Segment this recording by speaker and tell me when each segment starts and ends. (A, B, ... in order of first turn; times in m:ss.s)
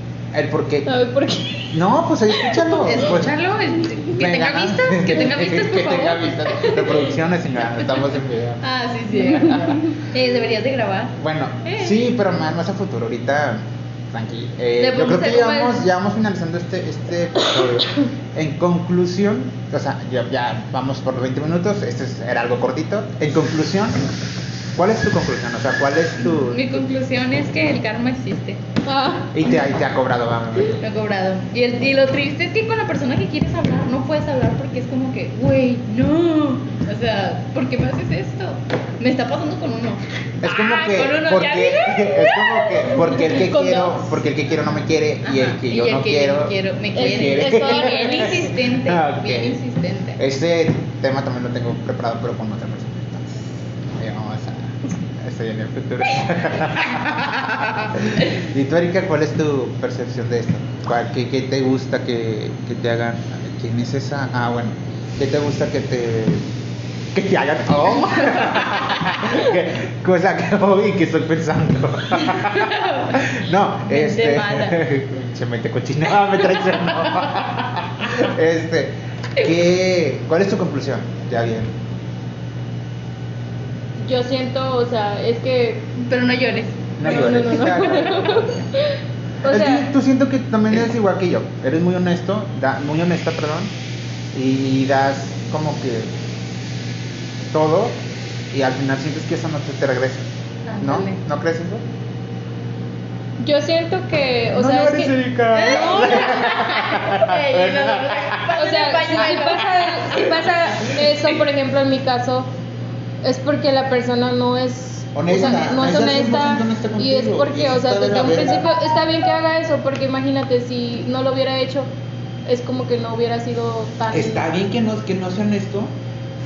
0:00.3-0:00.9 A
0:00.9-0:01.7 B
0:01.7-0:03.3 A
0:02.3-0:02.7 B
0:02.8-0:07.0 C
0:04.1-0:08.6 A
0:08.6-0:12.1 C
0:09.3-0:09.7 B
0:11.2-0:24.0 A
0:14.8-0:15.8 C
0:24.8-0:26.8 A
0:26.2-0:28.6 C
0:28.8-0:29.3 B
0:29.3-0:30.8 A
0:30.8-0:43.2 C
0:40.4-0:49.6 A
0:43.1-0:44.2 B
0:45.2-0:50.2 C
0:46.9-0:48.5 B
0:50.2-1:06.4 A
0:57.0-0:57.3 C
1:07.1-1:21.7 A
1:08.0-1:09.0 C
1:12.2-1:13.2 C
1:13.9-1:14.8 C
1:16.5-1:17.4 C
1:24.0-1:25.9 B
1:26.0-1:28.4 C
1:27.0-1:28.4 A
1:27.0-1:29.9 B
1:29.5-1:33.7 A
1:34.3-1:36.1 A
1:37.5-1:37.9 A
1:38.5-1:40.3 A
1:40.7-1:41.2 C
1:40.8-1:41.8 A
1:43.4-1:46.3 B
1:44.5-1:48.5 A
1:45.5-1:51.4 C
1:48.5-1:52.5 B
1:53.2-2:01.9 B
1:55.1-1:58.6 A
2:02.4-2:04.5 B
2:04.1-2:05.9 A